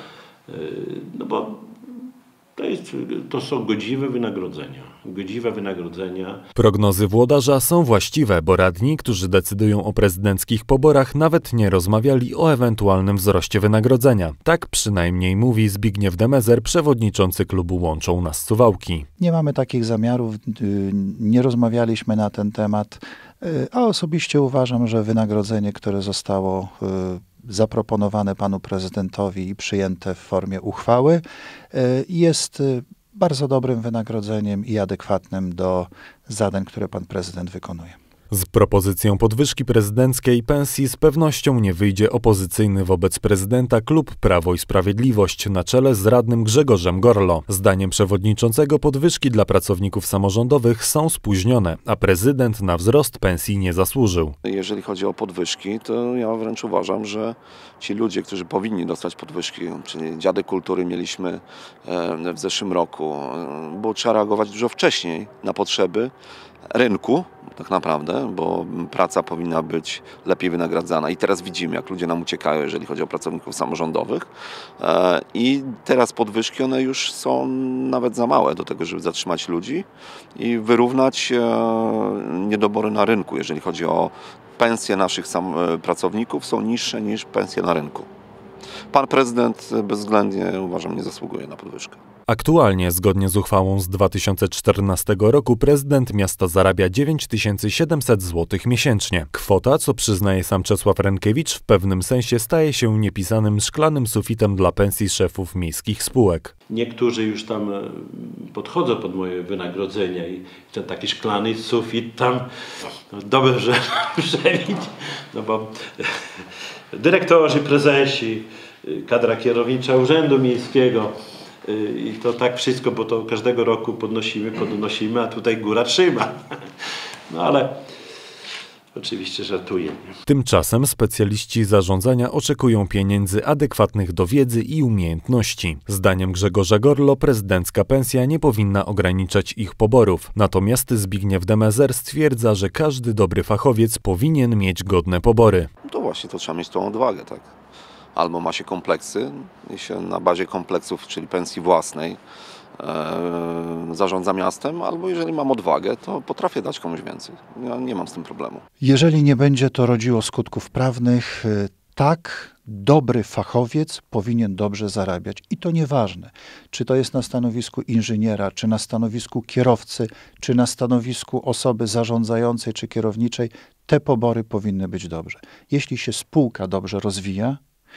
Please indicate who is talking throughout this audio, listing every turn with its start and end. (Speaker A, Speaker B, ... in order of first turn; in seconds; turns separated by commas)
Speaker A: 0.5-6.4, Speaker B: 6.6-19.1, Speaker C: 19.2-38.0, Speaker B: 38.3-54.4, Speaker D: 54.4-66.1, Speaker D: 66.7-88.1, Speaker D: 88.9-92.0, Speaker B: 92.3-106.5, Speaker A: 106.7-112.5, Speaker A: 113.1-121.1, Speaker A: 121.6-127.8, Speaker A: 128.9-130.1, Speaker B: 130.3-145.7, Speaker D: 145.9-147.5, Speaker D: 148.2-152.2, Speaker D: 152.8-158.6, Speaker C: 158.8-177.6